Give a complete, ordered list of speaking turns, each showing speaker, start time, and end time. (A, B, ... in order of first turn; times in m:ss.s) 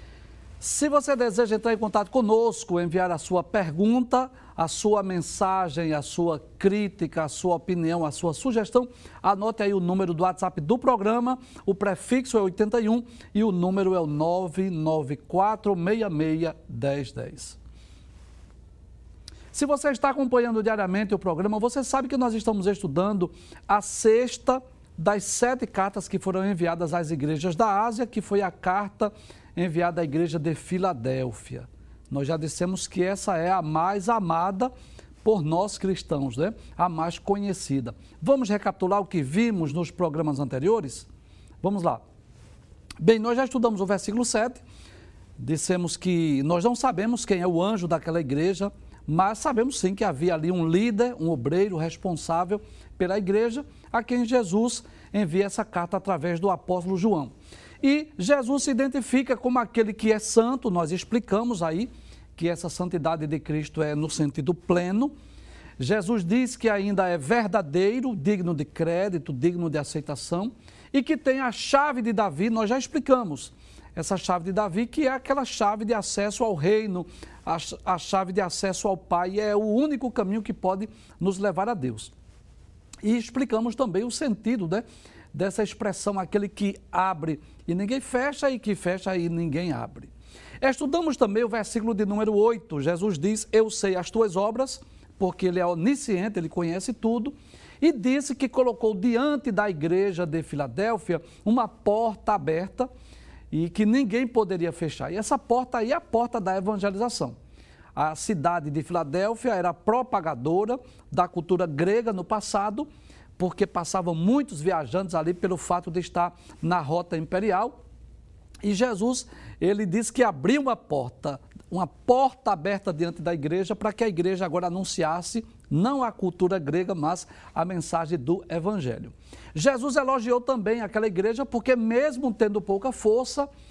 0:00.6-0:17.6 A
0:19.5-0:34.7 A
0:35.2-0:41.1 A
0:41.6-0:42.0 A
0:43.0-0:44.6 A
0:45.4-1:05.1 A
1:05.8-1:22.1 A
1:23.0-1:42.9 A
1:43.5-1:47.3 A
1:48.0-1:52.9 A
1:53.4-1:57.8 A
1:58.6-2:13.5 A